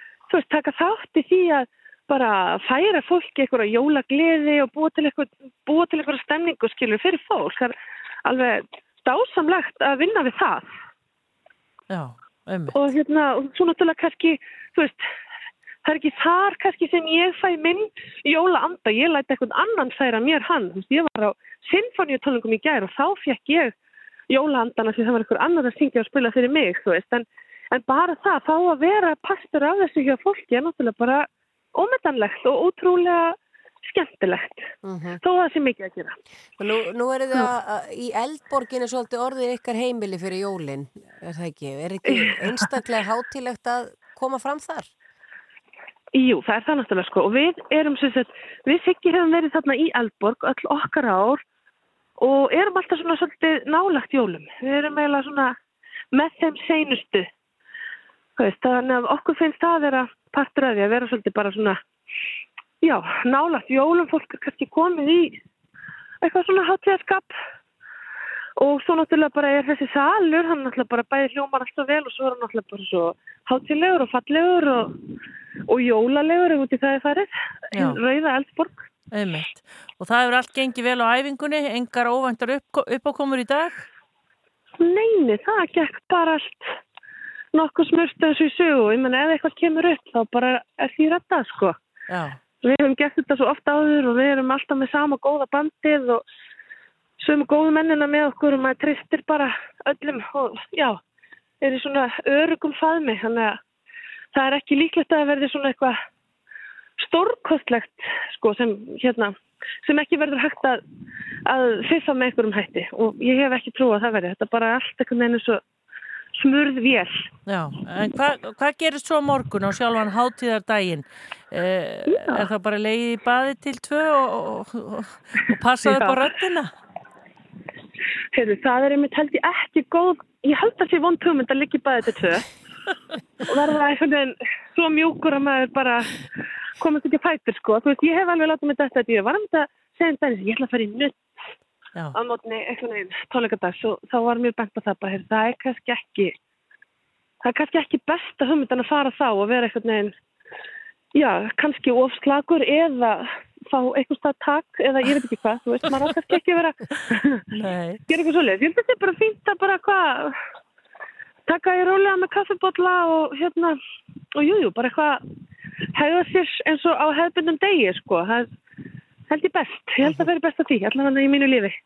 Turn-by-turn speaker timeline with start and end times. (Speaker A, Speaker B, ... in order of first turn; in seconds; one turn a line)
Speaker A: 0.3-7.7
Speaker A: 8.2-10.7
Speaker B: 11.9-12.9
Speaker A: 12.7-15.0
Speaker A: 15.8-23.7
Speaker A: 24.3-36.1
Speaker C: 34.8-35.2
Speaker C: 36.6-44.9
Speaker A: 42.1-42.6
Speaker A: 46.2-51.4
Speaker A: 52.2-55.5
Speaker A: 56.1-57.3
Speaker A: 58.4-61.8
Speaker A: 62.8-65.4
Speaker A: 66.2-67.3
Speaker A: 68.6-75.0
Speaker A: 75.7-78.8
Speaker B: 77.7-78.0
Speaker B: 79.1-83.8
Speaker A: 84.8-86.7
Speaker A: 87.5-91.8
Speaker B: 92.1-92.4
Speaker A: 92.6-96.2
Speaker A: 97.2-101.0
Speaker A: 101.6-103.6
Speaker A: 104.3-106.0
Speaker A: 107.0-109.3
Speaker A: 109.8-110.8
Speaker A: 111.5-115.6
Speaker A: 116.4-117.3
Speaker B: 117.5-126.7
Speaker A: 122.1-122.5
Speaker A: 125.8-126.2
Speaker A: 128.3-132.5
Speaker A: 133.4-136.2
Speaker A: 136.8-141.2
Speaker A: 142.1-146.3
Speaker A: 147.4-150.1
Speaker A: 151.1-157.4
Speaker B: 157.5-158.0
Speaker A: 158.1-160.3
Speaker A: 161.5-163.8
Speaker A: 164.3-165.2
Speaker A: 165.9-168.5
Speaker A: 169.3-171.8